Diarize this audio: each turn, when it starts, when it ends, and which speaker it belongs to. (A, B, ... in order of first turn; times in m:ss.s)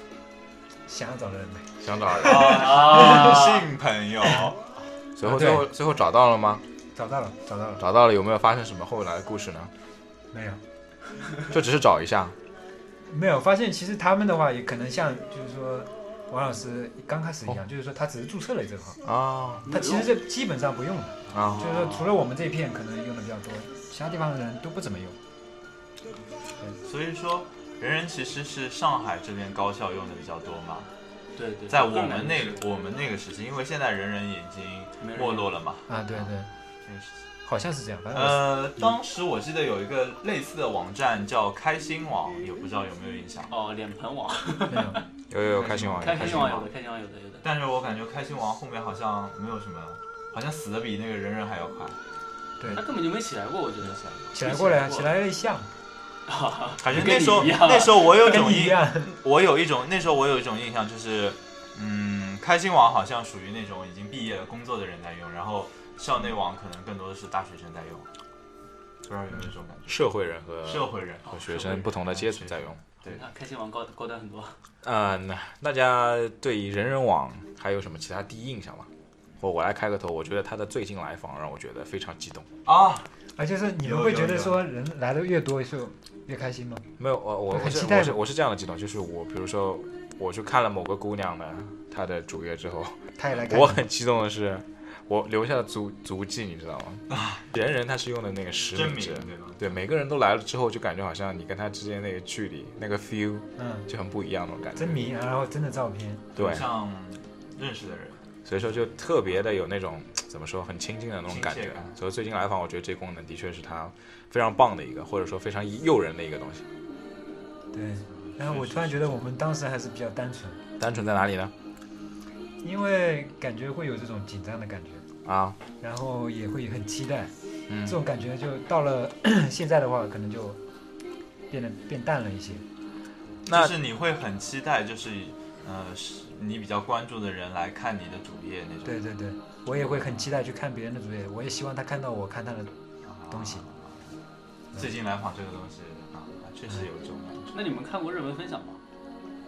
0:00.9-0:01.7 A
0:01.8-0:03.0 B
0:02.2-0:04.6 C
0:02.6-0:03.6 D
0:05.2-0:06.6 B
0:05.2-0:05.7 A
0:06.9-0:07.8 A
0:07.8-0:09.7 B
0:10.3-0:10.6 A
0:11.5-0:12.3 B
0:13.0-0:19.0 A
0:19.0-0:19.6 B
0:19.6-0:20.1 D
0:19.6-0:25.2 A
0:21.3-0:21.6 B
0:21.4-0:22.2 D
0:26.8-0:30.9 C
0:31.4-0:32.7 D
0:31.7-0:36.3 C
0:35.0-0:35.5 D
0:35.9-0:36.5 A
0:36.8-0:37.2 C
0:37.4-0:38.9 A
0:38.1-0:43.5 C
0:43.5-0:45.0 D
0:44.7-0:45.0 A
0:45.3-0:46.7 B
0:45.6-0:46.3 A
0:46.0-0:47.4 D
0:46.3-0:46.6 C
0:47.4-0:52.0 C
0:52.6-0:55.1 D
0:53.8-0:54.1 C
0:54.3-0:55.7 A
0:56.3-0:58.6 D
0:56.8-1:08.1 C
0:58.1-0:59.1 A
1:09.0-1:10.0 C
1:09.9-1:12.8 B
1:10.6-1:13.2 C
1:13.0-1:14.6 D
1:14.8-1:18.9 B
1:19.4-1:22.5 B
1:22.6-1:23.1 C
1:23.4-1:26.9 A
1:23.8-1:24.6 C
1:27.0-1:45.1 B
1:27.5-1:28.2 A
1:33.2-1:33.8 A
1:37.1-1:37.4 C
1:38.7-1:39.7 C
1:43.6-1:43.9 A
1:44.7-1:46.3 A
1:46.3-1:48.2 C
1:46.4-1:46.7 B
1:48.4-1:56.6 B
1:51.3-1:52.0 C
1:57.7-2:00.6 A
1:58.1-1:59.2 C
2:00.8-2:01.5 B
2:02.6-2:05.0 A
2:05.2-2:05.6 B
2:05.8-2:07.3 A
2:07.7-2:08.0 B
2:07.8-2:10.6 A
2:11.5-2:12.6 A
2:13.4-2:19.0 C
2:13.5-2:13.7 B
2:18.8-2:22.7 A
2:19.8-2:20.2 C
2:23.0-2:23.9 C
2:23.3-2:23.6 A
2:24.7-2:27.5 C
2:27.5-2:28.8 D